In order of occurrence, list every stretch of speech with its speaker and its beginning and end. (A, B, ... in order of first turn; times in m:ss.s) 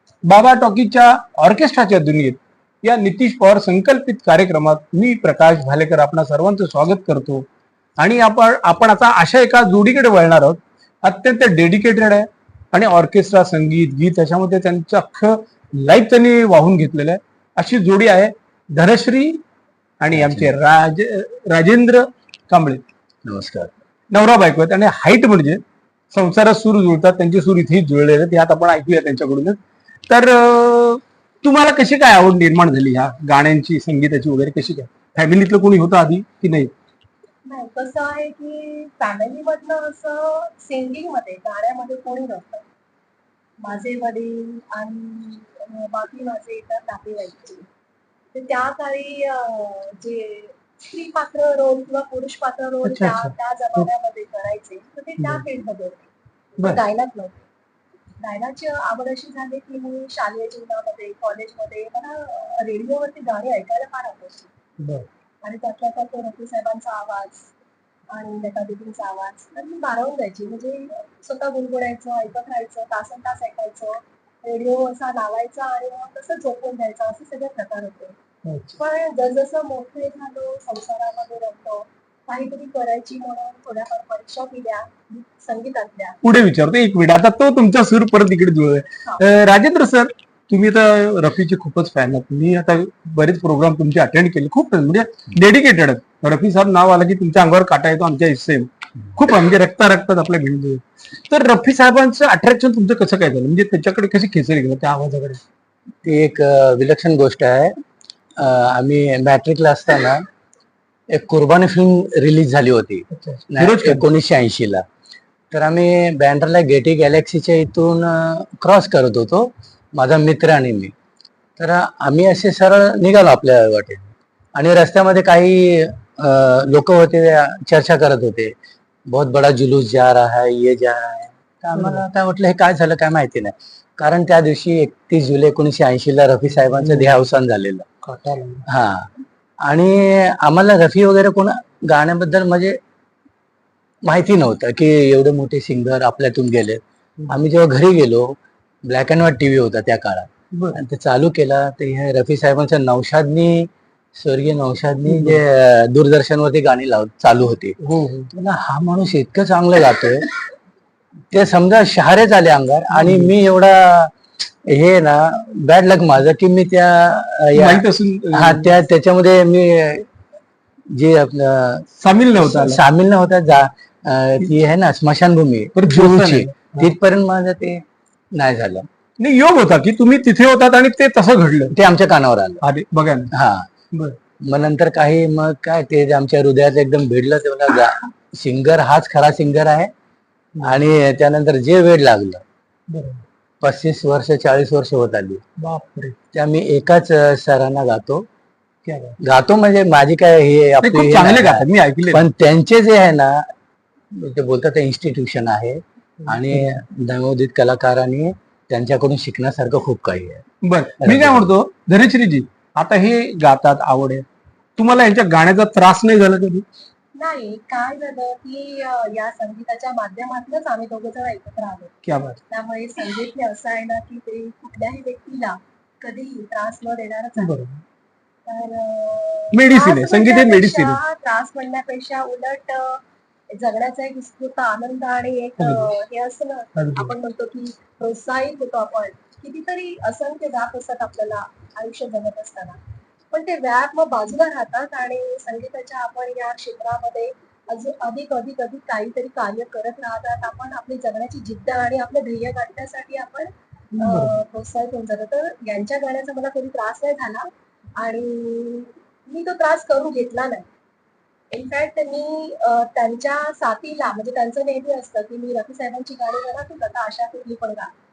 0:00.2-0:07.4 A
0:08.0-0:19.4 A
0:20.0-0:22.8 A
0:20.1-0:20.5 B
0:23.2-0:23.7 B
0:24.1-0:29.6 A
0:30.1-0:36.7 A
0:37.4-0:42.6 C
0:43.6-0:47.7 C
0:48.3-0:56.1 C
0:52.8-0:53.9 A
0:56.6-0:57.4 C
0:58.2-1:04.5 C
1:04.8-1:05.1 A
1:05.4-1:07.5 C
1:08.1-1:18.2 C
1:18.5-1:18.8 A
1:18.7-1:26.2 C
1:26.2-1:45.4 A
1:46.0-1:47.8 B
1:48.4-1:50.2 B
1:51.1-1:54.8 B
1:53.1-1:54.0 A
1:55.5-2:00.9 B
2:01.6-2:08.5 B
2:09.1-2:17.9 B
2:11.7-2:12.0 A
2:16.6-2:17.1 A
2:18.0-2:18.6 A
2:18.7-2:19.1 B
2:19.6-2:22.8 B
2:24.0-2:37.8 B
2:30.5-2:30.8 A
2:35.1-2:35.4 A
2:37.8-2:38.3 A
2:38.3-2:40.3 B
2:41.3-2:44.1 B
2:42.9-2:43.3 A
2:44.7-2:50.1 B
2:47.5-2:48.7 A
2:50.9-2:51.9 B
2:52.0-2:52.8 A
2:52.4-2:58.9 B
2:55.8-2:56.9 A
2:59.2-3:01.7 A
3:01.7-3:02.6 B
3:02.6-3:03.3 A
3:03.3-3:03.7 B
3:03.9-3:04.2 A
3:04.4-3:09.9 B
3:10.5-3:10.8 A
3:10.6-3:12.4 B
3:12.9-3:13.2 A
3:13.6-3:15.4 B
3:15.6-3:16.2 A
3:16.3-3:18.3 B
3:18.8-3:19.2 A
3:19.2-3:23.5 B
3:20.8-3:22.2 A
3:24.1-3:30.4 B
3:26.2-3:26.8 A
3:30.6-3:34.2 A
3:31.0-3:31.5 B
3:34.8-3:36.6 A
3:37.1-3:41.9 C
3:42.0-3:42.4 A
3:42.5-3:47.6 C
3:47.4-3:47.8 A
3:48.4-4:02.8 C
3:49.5-3:51.0 A
3:55.6-3:55.9 A
3:56.8-3:57.1 A
4:03.3-4:20.7 C
4:13.9-4:14.4 A
4:21.5-4:27.9 C